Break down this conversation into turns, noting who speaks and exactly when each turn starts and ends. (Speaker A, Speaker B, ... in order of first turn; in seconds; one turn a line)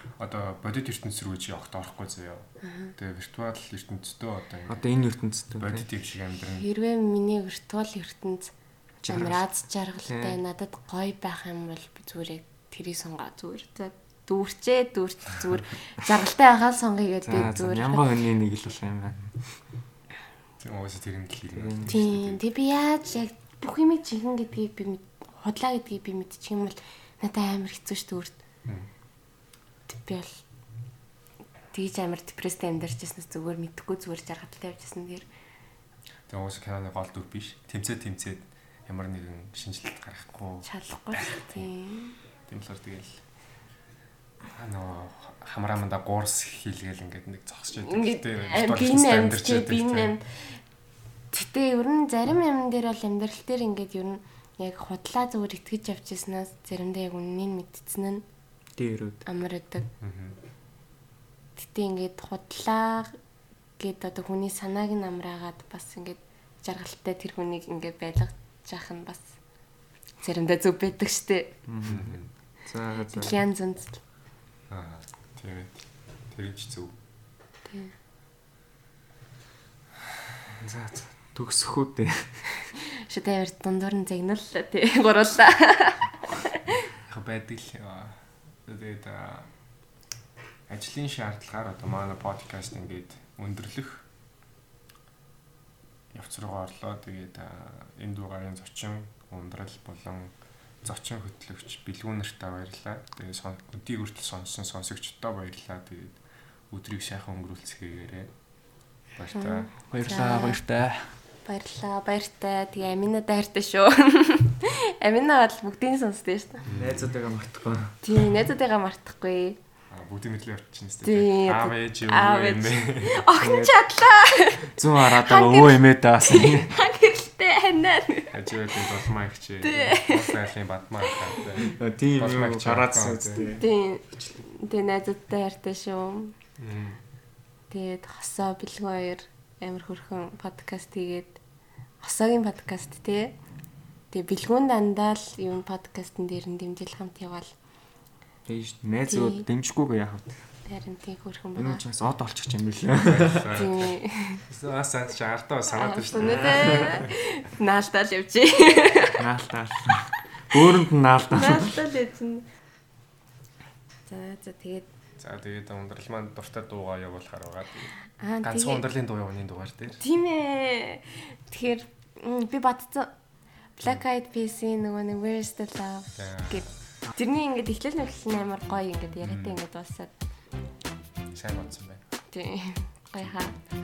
Speaker A: 0.2-4.8
Speaker B: 2.6-2.9
Speaker C: 4.7-5.8
Speaker A: 5.6-6.7
Speaker B: 6.6-8.5
Speaker C: 9.0-9.4
Speaker B: 9.1-18.0
Speaker C: 10.0-10.4
Speaker C: 17.2-19.5
Speaker A: 20.6-22.4
Speaker C: 21.6-22.0
Speaker B: 21.9-28.4
Speaker B: 29.9-30.4
Speaker B: 31.7-35.2
Speaker A: 36.3-41.7
Speaker B: 40.6-42.1
Speaker A: 42.5-43.2
Speaker A: 44.5-50.1
Speaker B: 47.9-50.6
Speaker B: 51.3-58.2
Speaker C: 58.8-59.2
Speaker B: 59.2-59.9
Speaker A: 60.0-60.4
Speaker B: 61.6-63.2
Speaker B: 63.8-69.3
Speaker B: 70.2-71.5
Speaker C: 71.7-73.4
Speaker A: 71.8-72.3
Speaker B: 73.1-74.0
Speaker A: 74.7-76.9
Speaker B: 77.7-77.9
Speaker C: 80.5-82.5
Speaker B: 82.9-86.1
Speaker A: 87.0-89.5
Speaker A: 90.7-94.0
Speaker A: 96.1-106.2
Speaker A: 106.7-108.3
Speaker A: 109.1-109.7
Speaker B: 109.3-110.6
Speaker C: 109.9-111.1
Speaker B: 111.4-116.6
Speaker A: 116.6-117.1
Speaker C: 116.7-118.0
Speaker B: 118.0-119.6
Speaker A: 119.9-123.2
Speaker B: 121.0-128.4
Speaker C: 123.4-123.7
Speaker C: 124.8-126.7
Speaker A: 128.3-133.5
Speaker B: 129.6-130.3
Speaker C: 131.7-133.7
Speaker B: 133.4-136.3
Speaker A: 136.6-137.0
Speaker B: 137.7-141.4
Speaker B: 142.0-143.3
Speaker B: 144.1-147.5
Speaker C: 148.5-150.4
Speaker B: 149.1-149.4
Speaker B: 150.7-151.8
Speaker C: 151.6-153.6
Speaker A: 153.0-157.0
Speaker B: 153.5-154.4
Speaker B: 155.7-159.2
Speaker C: 156.3-157.0
Speaker C: 159.2-161.8
Speaker B: 161.3-162.4
Speaker B: 164.1-164.9
Speaker A: 165.2-170.0
Speaker B: 168.2-168.8
Speaker B: 170.0-173.1
Speaker B: 173.8-180.1
Speaker A: 176.2-176.7
Speaker A: 179.2-179.6
Speaker A: 181.3-182.0
Speaker B: 182.3-183.5